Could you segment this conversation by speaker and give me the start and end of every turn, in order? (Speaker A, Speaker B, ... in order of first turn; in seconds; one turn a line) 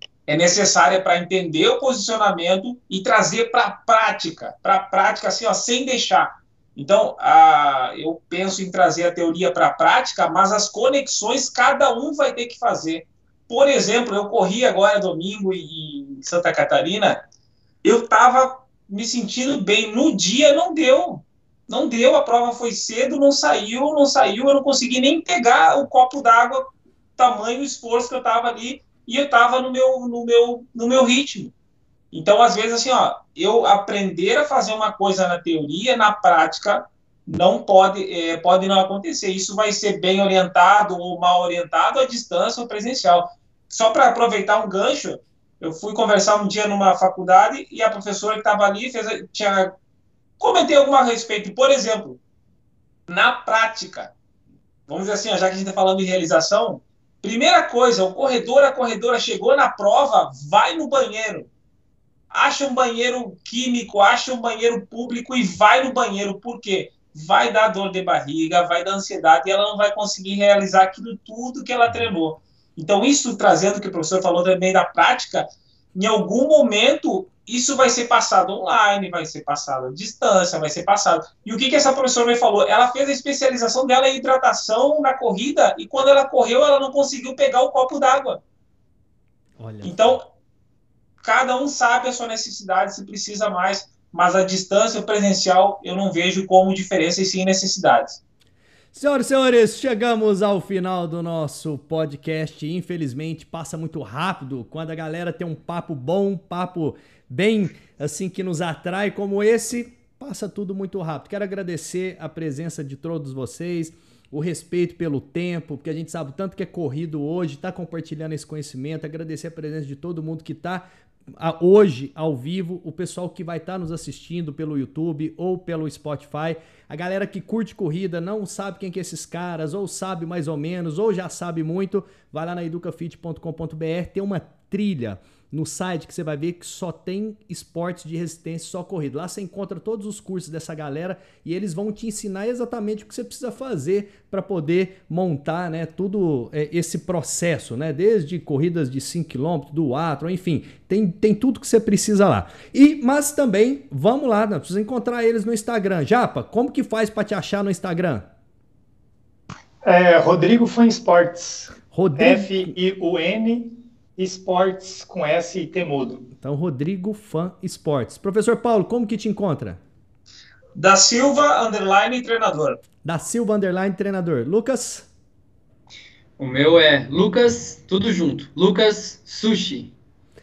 Speaker A: 0.3-17.2
Speaker A: 17.8-31.5
Speaker A: 32.1-49.8
Speaker A: 50.4-52.2
Speaker A: 53.1-54.1
Speaker A: 54.9-61.5
Speaker A: 62.3-88.4
Speaker B: 89.6-90.2
Speaker A: 89.8-90.2
Speaker A: 91.2-98.2
Speaker B: 98.9-120.8
Speaker B: 121.4-158.3
Speaker C: 159.8-166.3
Speaker B: 161.9-162.7
Speaker B: 166.4-169.8
Speaker A: 170.8-172.8
Speaker B: 173.0-175.1
Speaker D: 176.4-179.9